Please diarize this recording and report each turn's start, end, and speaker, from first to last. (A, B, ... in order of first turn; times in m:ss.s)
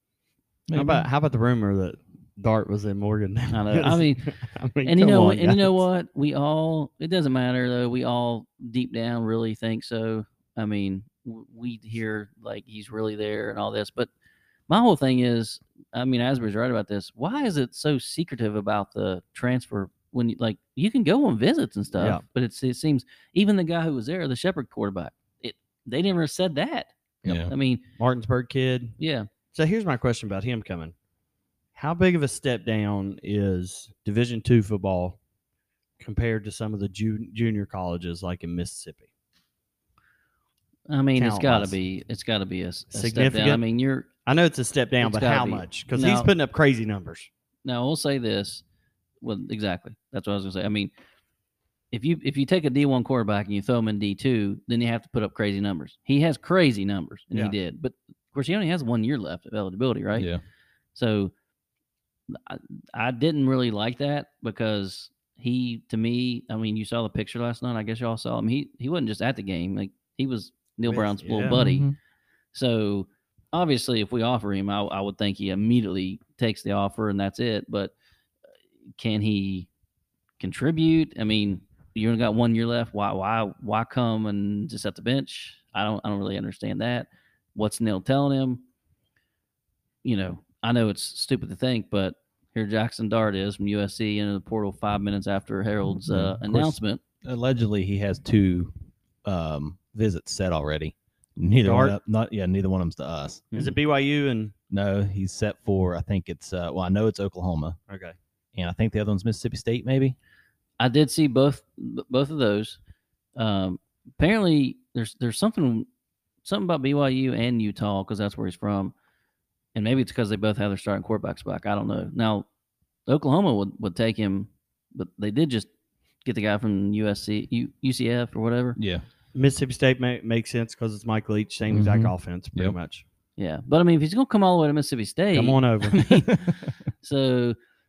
0:00.7-0:01.1 A
0:00.7-0:05.7 B
0:03.5-0:04.3 C
0:04.8-0:14.1 C
0:14.7-0:27.8 C
0:22.0-0:22.2 B
0:27.2-0:27.5 A
0:28.0-0:29.0 B
0:29.0-0:29.3 C
0:29.5-0:30.9 B
0:31.8-0:35.2 B
0:36.0-0:39.1 B
0:40.9-0:44.1 C
0:41.2-0:41.8 B
0:42.9-0:43.6 B
0:44.2-0:47.3 B
0:45.0-0:46.3 C
0:47.6-0:48.6 C
0:49.2-0:50.9 C
0:51.9-1:00.3 C
1:00.1-1:00.4 A
1:00.9-1:01.3 C
1:02.3-1:11.9 C
1:10.8-1:11.6 B
1:11.5-1:11.9 A
1:12.5-1:17.9 C
1:19.0-1:19.7 C
1:20.4-1:28.6 C
1:30.0-1:37.0 C
1:36.1-1:38.7 A
1:39.2-1:43.4 A
1:41.6-1:42.0 B
1:43.5-1:44.5 B
1:44.7-1:47.8 A
1:47.9-1:48.1 B
1:48.5-1:50.2 A
1:50.8-1:52.8 C
1:53.4-1:55.9 C
1:56.4-1:58.9 C
1:59.8-2:02.5 C
2:03.1-2:05.7 C
2:06.2-2:08.8 C
2:08.8-2:09.0 A
2:09.3-2:13.0 B
2:11.7-2:12.8 A
2:13.4-2:17.6 C
2:15.3-2:16.1 B